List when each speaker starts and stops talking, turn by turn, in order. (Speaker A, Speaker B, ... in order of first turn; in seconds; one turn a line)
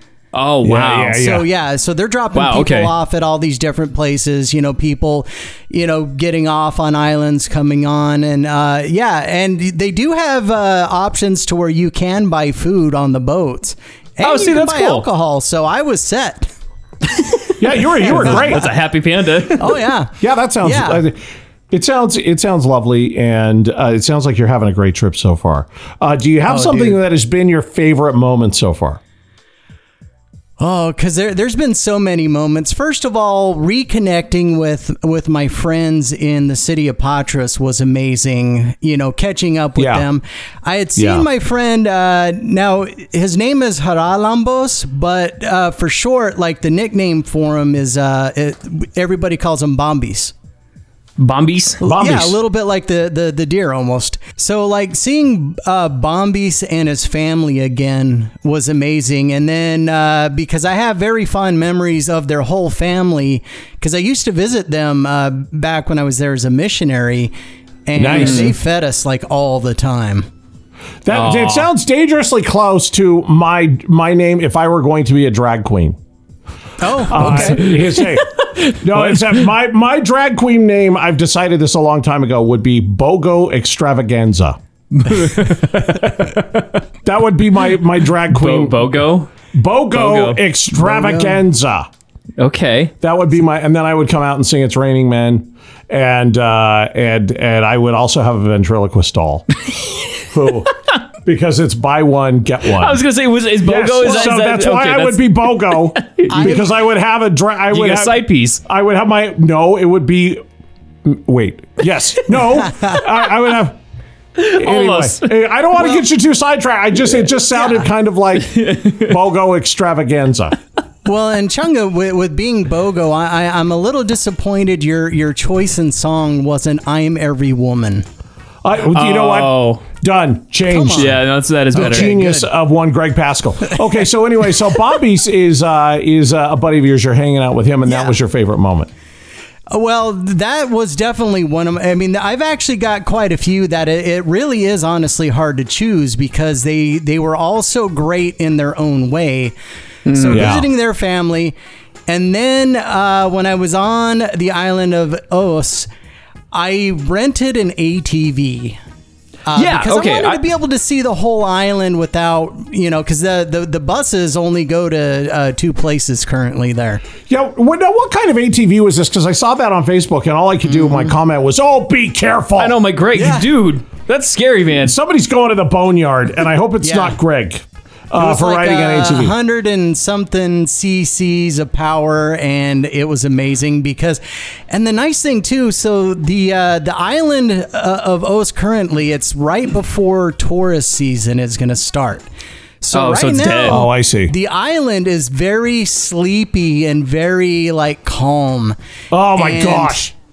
Speaker A: 0.3-1.2
Speaker B: 0.6-1.5
Speaker C: 1.1-16.5
Speaker A: 2.3-2.9
Speaker A: 14.2-15.1
Speaker B: 17.6-18.8
Speaker C: 18.0-18.6
Speaker A: 18.0-19.8
Speaker C: 19.6-21.0
Speaker B: 20.2-21.2
Speaker B: 21.7-29.0
Speaker C: 26.5-27.0
Speaker C: 30.6-50.3
Speaker B: 39.8-40.1
Speaker B: 41.0-41.3
Speaker A: 51.2-51.8
Speaker B: 51.8-52.4
Speaker C: 51.8-67.3
Speaker C: 67.9-70.3
Speaker B: 68.0-68.5
Speaker A: 68.1-68.5
Speaker B: 71.0-76.0
Speaker A: 71.1-71.7
Speaker C: 76.8-77.7
Speaker B: 77.0-86.4
Speaker A: 77.3-78.8
Speaker A: 85.0-86.4
Speaker B: 87.0-91.9
Speaker A: 88.3-89.3
Speaker A: 89.9-90.4
Speaker C: 90.8-91.4
Speaker A: 92.4-92.9
Speaker B: 93.0-99.5
Speaker A: 99.7-100.2
Speaker B: 100.3-100.7
Speaker B: 101.2-103.0
Speaker A: 102.7-106.6
Speaker B: 103.6-110.4
Speaker C: 106.3-106.7
Speaker A: 107.7-108.6
Speaker B: 111.0-113.8
Speaker A: 114.4-115.3
Speaker B: 114.5-120.6
Speaker C: 115.8-116.0
Speaker C: 117.5-117.9
Speaker A: 118.5-119.1
Speaker C: 121.0-128.1
Speaker B: 128.6-131.2
Speaker A: 128.9-129.8
Speaker C: 130.7-132.5
Speaker A: 130.9-132.2
Speaker B: 131.7-138.9
Speaker C: 137.9-138.1
Speaker C: 139.7-149.5
Speaker A: 150.1-150.6
Speaker C: 150.1-151.6
Speaker B: 150.3-150.7
Speaker C: 152.1-155.9
Speaker C: 156.5-158.8
Speaker C: 159.5-167.0
Speaker A: 159.6-160.4
Speaker B: 167.3-172.8
Speaker C: 170.7-171.1
Speaker A: 172.6-174.9
Speaker C: 173.1-173.5
Speaker B: 174.7-179.3
Speaker C: 176.8-177.2
Speaker C: 178.2-192.2
Speaker C: 192.8-198.8
Speaker A: 192.9-193.9
Speaker B: 193.7-194.3
Speaker B: 199.1-200.1
Speaker C: 199.3-200.0